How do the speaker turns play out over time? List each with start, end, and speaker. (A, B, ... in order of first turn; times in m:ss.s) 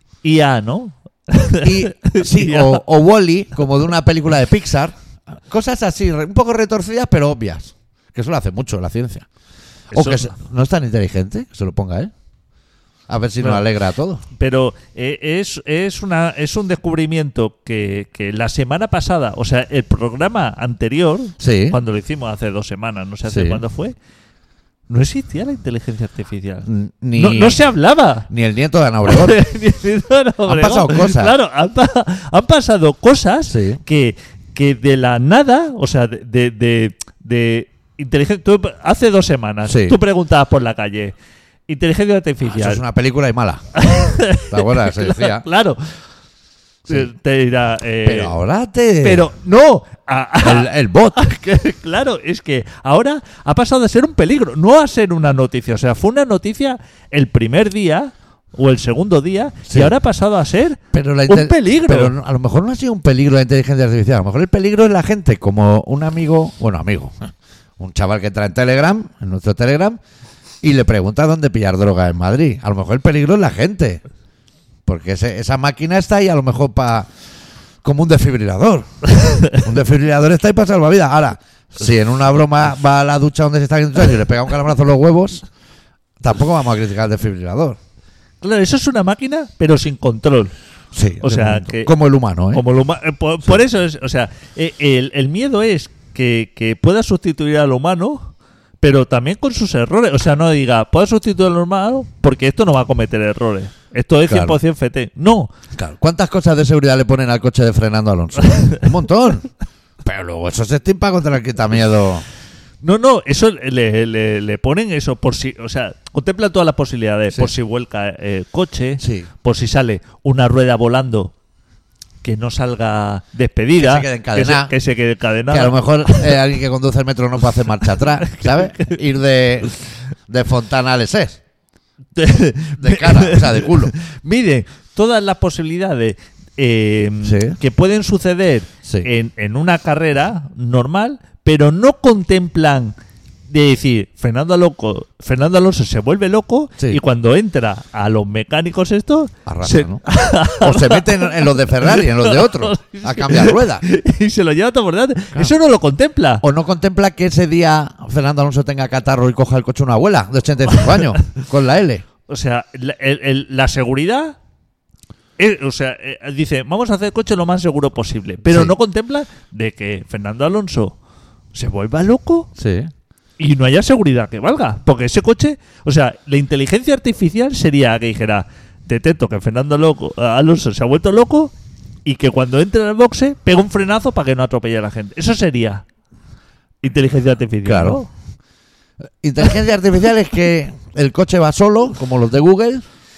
0:00.2-0:02.8 A
0:01.6-0:09.3 B
0:09.9-0:10.3 A
0:09.9-0:12.1 B
0:13.1-0:14.2 B
0:14.4-0:24.0 A
0:21.4-0:21.8 B
0:23.3-0:23.6 B
0:24.9-0:28.3 A
0:26.7-0:27.6 B
0:28.3-0:29.4 B
0:29.1-0:41.1 A
0:30.5-0:31.3 B
0:33.5-0:33.8 B
0:39.7-0:40.0 B
0:41.7-0:42.8 A
0:42.4-0:43.6 B
0:43.8-0:45.9 A
0:44.4-0:45.4 B
0:46.9-0:48.4 A
0:48.0-0:49.2 B
0:49.0-1:02.1 A
0:50.4-0:51.2 B
0:59.7-0:59.9 B
1:00.9-1:07.3 B
1:07.8-1:10.0 B
1:10.6-1:14.0 B
1:14.9-1:17.1 B
1:17.8-1:18.9 B
1:19.5-1:25.4 B
1:26.2-1:27.8 B
1:28.4-1:30.5 A
1:30.9-1:32.6 B
1:31.2-1:31.9 A
1:32.5-1:45.5 A
1:44.3-1:44.6 B
1:45.8-1:49.5 B
1:50.0-1:52.2 B
1:52.8-2:01.3 A
1:59.0-1:59.3 B
2:02.2-2:06.3 A
2:03.8-2:04.7 B
2:05.5-2:09.8 B
2:08.2-2:09.0 A
2:10.3-2:11.4 B
2:12.2-2:23.0 A
2:12.8-2:13.9 B
2:17.2-2:17.6 B
2:23.5-2:36.4 A
2:29.5-2:30.0 B
2:30.6-2:33.8 B
2:36.4-2:42.0 B
2:42.3-2:44.4 A
2:45.4-2:51.0 A
2:48.5-2:48.7 B
2:51.5-2:52.5 A
2:52.6-2:52.9 B
2:53.4-3:01.5 A
3:02.0-3:05.8 A
3:06.8-3:08.1 A
3:07.6-3:08.0 B
3:09.2-3:12.9 B